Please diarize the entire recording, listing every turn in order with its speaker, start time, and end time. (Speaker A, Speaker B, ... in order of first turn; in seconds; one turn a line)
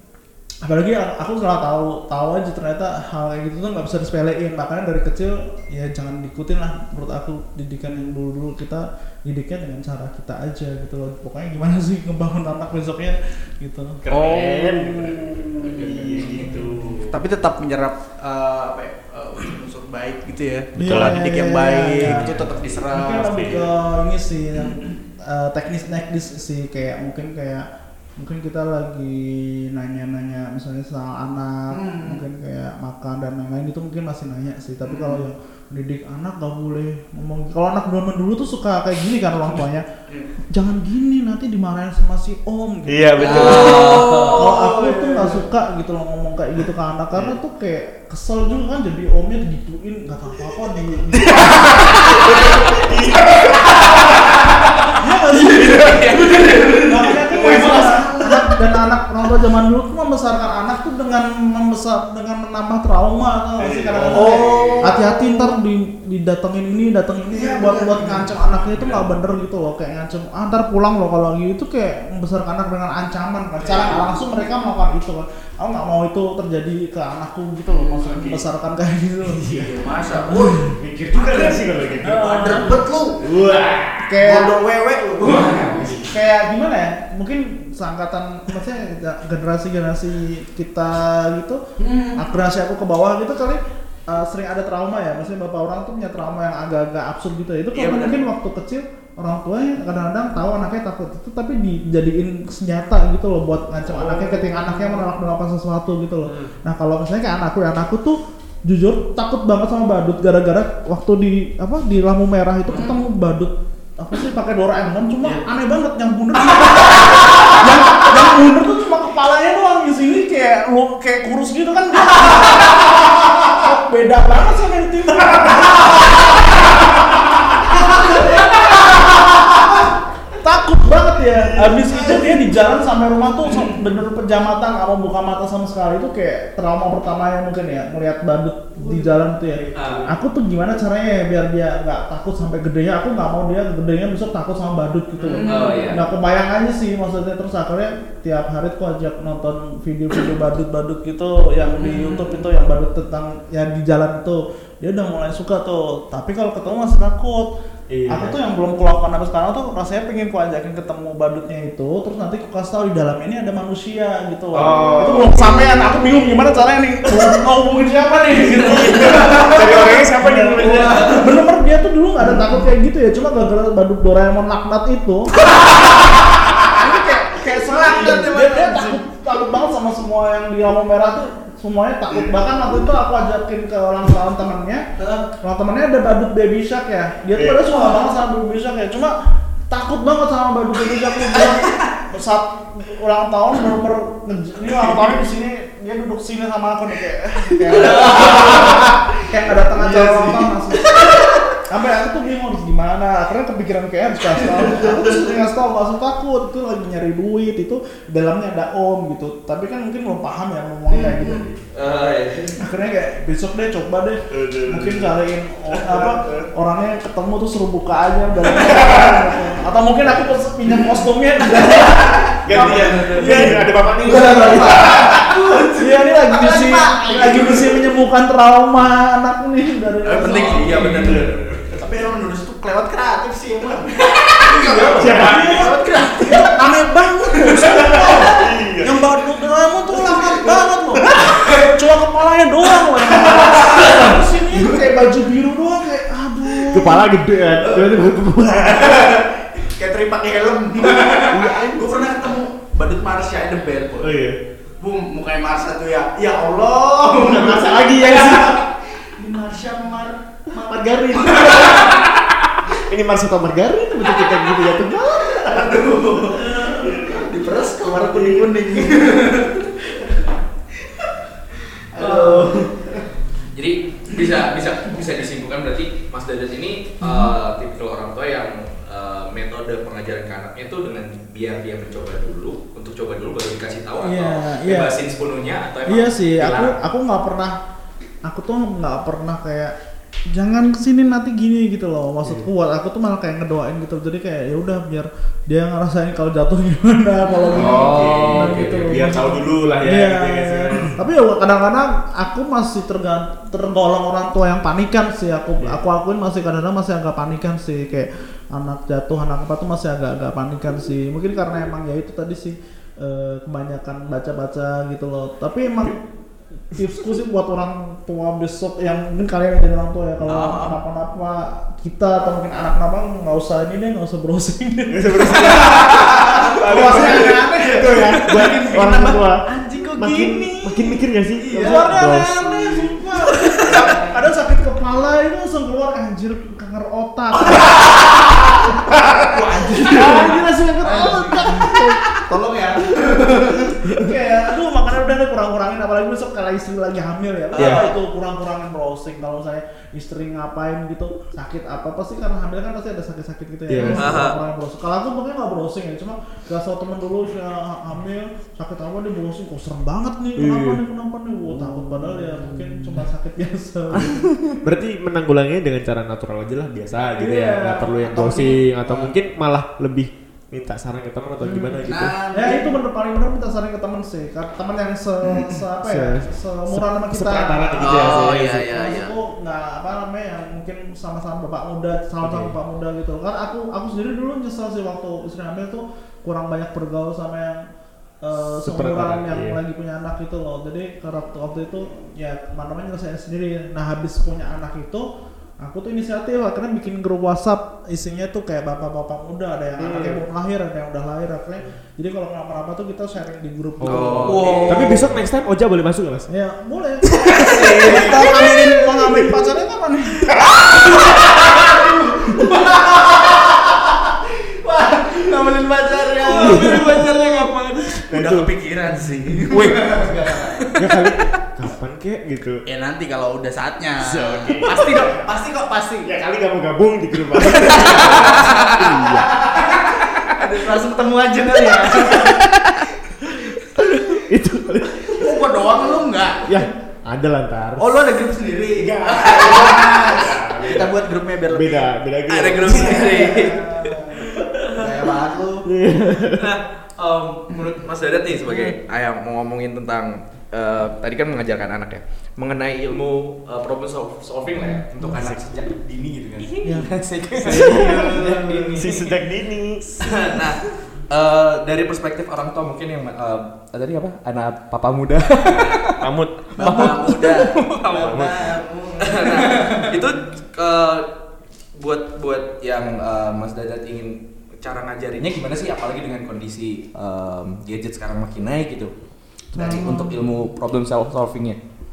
Speaker A: 0.6-17.0
Speaker B: 14.0-17.2
Speaker C: 16.4-23.4
Speaker B: 20.8-21.2
Speaker A: 20.8-22.4
Speaker B: 22.0-23.7
Speaker A: 22.9-39.9
Speaker C: 24.6-24.9
Speaker C: 31.7-32.2
Speaker C: 34.9-35.2
Speaker A: 40.5-52.3
Speaker B: 42.9-44.0
Speaker D: 43.2-44.7
Speaker C: 43.2-45.5
Speaker B: 51.3-54.8
Speaker A: 54.9-55.9
Speaker C: 55.3-58.6
Speaker B: 55.6-56.1
Speaker D: 55.7-56.6
Speaker A: 56.8-79.5
Speaker B: 63.6-65.0
Speaker C: 64.0-65.6
Speaker C: 67.3-68.3
Speaker B: 68.8-69.1
Speaker C: 73.6-74.0
Speaker C: 77.7-78.4
Speaker B: 79.2-79.8
Speaker C: 79.5-80.6
Speaker A: 80.1-80.7
Speaker B: 80.6-84.2
Speaker C: 81.2-86.0
Speaker A: 82.0-82.8
Speaker A: 84.0-84.5
Speaker D: 85.2-86.0
Speaker B: 85.6-86.0
Speaker A: 86.0-91.6
Speaker C: 91.8-92.3
Speaker A: 92.1-126.5
Speaker C: 97.7-98.3
Speaker C: 103.8-105.1
Speaker B: 106.2-106.5
Speaker C: 112.7-113.0
Speaker C: 116.5-118.1
Speaker C: 125.7-126.1
Speaker A: 127.7-128.6
Speaker C: 127.7-128.7
Speaker A: 130.4-157.5
Speaker B: 131.3-132.2
Speaker C: 133.5-133.8
Speaker C: 138.8-139.1
Speaker B: 139.5-140.2
Speaker D: 139.8-140.1
Speaker C: 145.2-145.9
Speaker D: 145.4-146.0
Speaker C: 151.8-152.4
Speaker B: 157.9-158.4
Speaker A: 158.1-175.3
Speaker B: 164.5-166.6
Speaker B: 168.6-171.2
Speaker C: 168.8-170.0
Speaker C: 170.5-171.4
Speaker C: 172.3-172.6
Speaker C: 175.4-176.1
Speaker C: 176.7-179.0
Speaker A: 176.7-189.2
Speaker B: 182.1-182.4
Speaker C: 185.0-185.2
Speaker B: 187.3-187.7
Speaker C: 187.7-188.1
Speaker A: 189.7-211.6
Speaker C: 191.3-191.9
Speaker C: 197.6-201.6
Speaker C: 204.4-205.3
Speaker C: 210.9-211.5
Speaker D: 211.7-212.6
Speaker A: 212.6-225.1
Speaker B: 214.3-215.1
Speaker B: 215.7-216.5
Speaker B: 218.4-219.4
Speaker C: 221.4-227.9
Speaker B: 222.3-225.4
Speaker A: 225.8-231.3
Speaker C: 230.0-236.7
Speaker D: 230.2-231.5
Speaker B: 230.7-231.8
Speaker A: 234.5-247.1
Speaker B: 234.8-235.7
Speaker C: 237.3-238.5
Speaker B: 237.6-239.1
Speaker C: 239.9-240.7
Speaker B: 240.9-241.4
Speaker C: 243.0-244.2
Speaker C: 246.6-254.2
Speaker B: 246.7-249.3
Speaker B: 251.2-252.1
Speaker B: 254.0-254.4
Speaker C: 254.8-262.1
Speaker B: 257.2-258.6
Speaker B: 260.7-262.0
Speaker B: 262.7-267.4
Speaker C: 264.0-270.2
Speaker B: 267.9-268.9
Speaker C: 270.8-273.0
Speaker A: 272.0-272.6
Speaker D: 273.5-286.7
Speaker A: 277.0-277.3
Speaker A: 284.0-285.0
Speaker A: 285.9-287.6
Speaker A: 288.2-289.8
Speaker A: 290.3-316.0
Speaker C: 297.3-297.9
Speaker D: 297.5-298.8
Speaker B: 297.6-301.0
Speaker A: 316.7-328.9
Speaker C: 320.3-320.8
Speaker B: 324.9-329.4
Speaker C: 325.4-334.2
Speaker B: 329.9-332.9
Speaker A: 331.5-337.9
Speaker C: 337.6-338.0
Speaker C: 338.9-343.7
Speaker A: 338.9-342.0
Speaker B: 339.9-342.0
Speaker A: 343.2-364.2
Speaker B: 343.8-344.1
Speaker C: 347.5-347.9
Speaker B: 347.6-347.9
Speaker B: 353.7-354.2
Speaker D: 353.9-354.4
Speaker B: 360.4-360.8
Speaker C: 361.7-363.0
Speaker B: 363.9-372.1
Speaker A: 367.2-368.6
Speaker C: 368.8-369.1
Speaker A: 371.4-387.6
Speaker C: 371.9-372.8
Speaker C: 375.3-375.6
Speaker B: 375.8-378.7
Speaker D: 377.8-379.1
Speaker B: 382.2-382.6
Speaker A: 388.2-395.1
Speaker B: 388.6-389.6
Speaker A: 395.6-405.1
Speaker B: 399.8-400.2
Speaker B: 403.8-406.3
Speaker D: 403.9-404.9
Speaker C: 404.2-405.0
Speaker A: 406.3-410.6
Speaker B: 407.0-409.1
Speaker C: 407.4-409.2
Speaker C: 410.3-420.7
Speaker B: 416.2-418.5
Speaker D: 416.4-417.6
Speaker D: 419.5-420.8
Speaker B: 420.7-422.6
Speaker C: 422.7-426.1
Speaker B: 424.0-425.2
Speaker B: 426.1-429.6
Speaker D: 427.6-428.7
Speaker C: 427.7-434.2
Speaker D: 430.0-430.3
Speaker B: 434.3-435.4
Speaker C: 435.0-436.7
Speaker B: 436.4-438.0
Speaker C: 437.8-441.9
Speaker B: 438.8-443.4
Speaker D: 439.0-440.0
Speaker D: 442.3-443.9
Speaker C: 442.6-443.9
Speaker A: 443.5-444.2
Speaker B: 444.6-444.9
Speaker C: 444.7-445.7
Speaker B: 445.6-446.6
Speaker D: 446.4-459.2
Speaker C: 448.5-448.8
Speaker A: 454.6-455.2
Speaker B: 455.2-455.4
Speaker A: 456.6-456.9
Speaker B: 457.4-460.5
Speaker A: 457.4-458.8
Speaker D: 460.0-466.0
Speaker B: 465.9-466.9
Speaker D: 466.6-471.1
Speaker C: 466.6-470.0
Speaker B: 467.9-468.6
Speaker D: 471.8-478.9
Speaker A: 479.5-480.2
Speaker D: 479.5-481.6